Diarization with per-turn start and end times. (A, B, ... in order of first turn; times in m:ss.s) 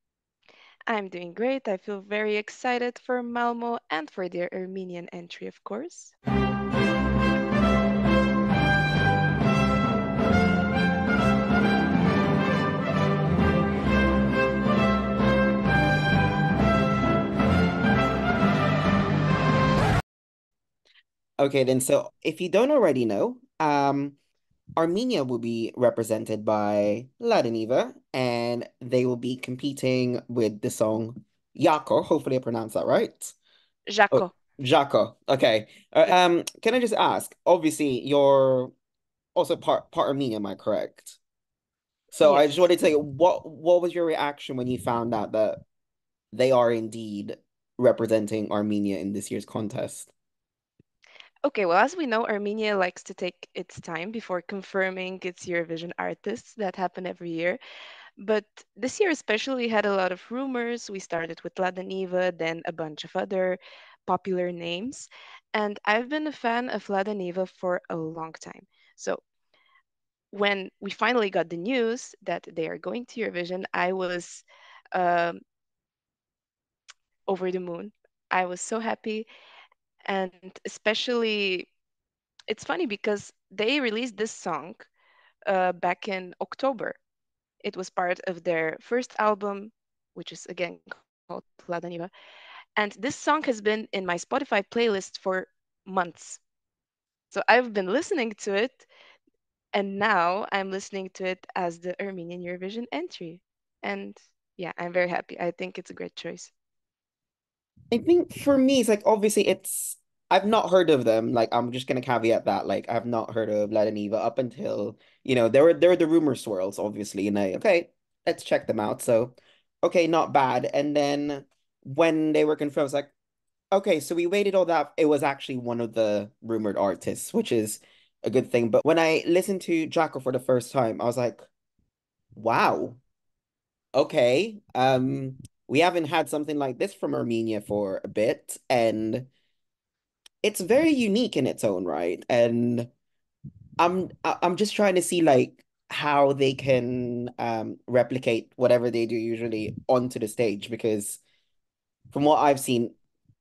0:00.9-0:06.1 A
0:21.4-0:24.2 B
0:24.8-0:33.3 B
0:33.9-0:34.3 A
0:34.1-0:38.7 B
0:39.3-0:41.2 B
0:42.1-0:45.6 B
0:42.2-0:42.6 A
0:46.3-0:50.1 B
0:51.4-0:57.6 A
0:58.2-1:09.2 A
1:10.3-1:15.4 A
1:17.3-1:19.3 A
1:20.1-1:21.7 A
1:22.5-1:24.9 A
1:25.5-1:27.0 A
1:27.6-1:32.1 A
1:32.8-1:36.4 A
1:37.3-1:38.9 A
1:39.7-1:46.5 A
1:47.9-2:03.1 B
2:03.7-2:11.4 B
2:12.4-2:13.0 B
2:13.9-2:19.3 B
2:20.4-2:22.9 B
2:23.8-2:31.2 B
2:32.1-2:33.0 B